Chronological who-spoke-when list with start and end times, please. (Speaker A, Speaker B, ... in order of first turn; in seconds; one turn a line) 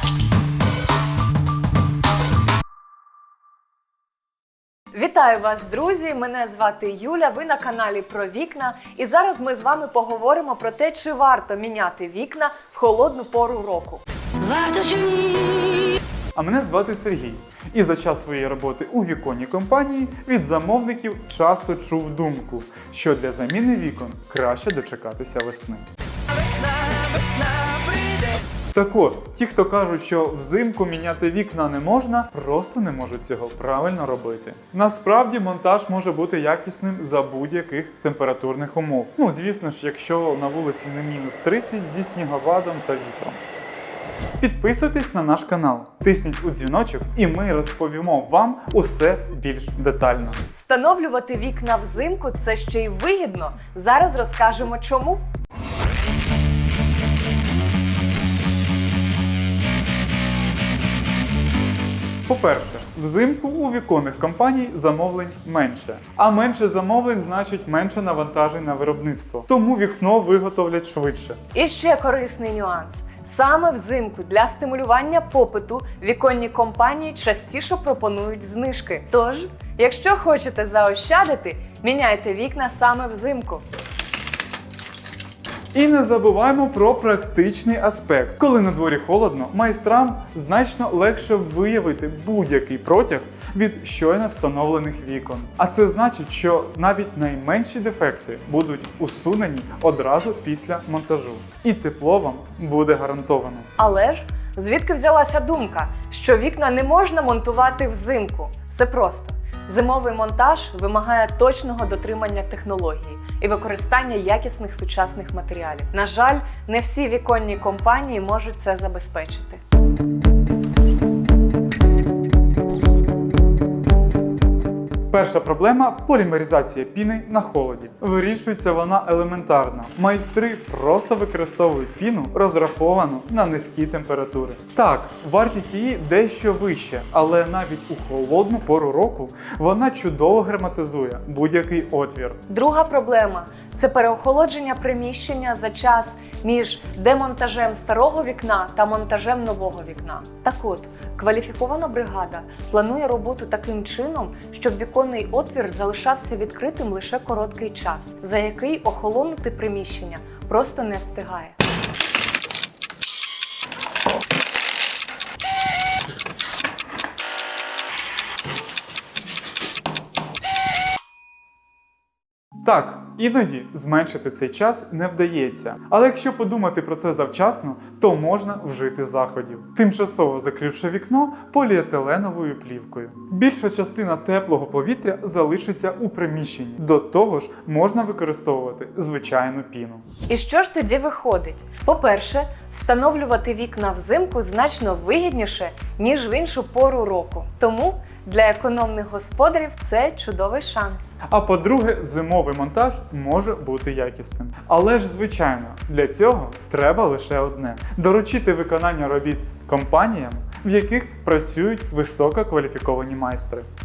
Speaker A: 4.9-14.0
Speaker B: 14.5-15.8
Speaker C: 16.3-25.8
Speaker B: 26.4-28.4
Speaker C: 28.7-43.5
Speaker C: 44.4-50.4
Speaker A: 50.5-55.2
Speaker C: 62.2-71.4
Speaker A: 71.5-83.6
Speaker C: 85.7-103.7
Speaker A: 103.8-119.6
Speaker C: 125.1-142.4
Speaker A: 142.5-161.6
Speaker C: 172.6-190.0
Speaker A: 190.3-201.2
Speaker C: 201.2-213.7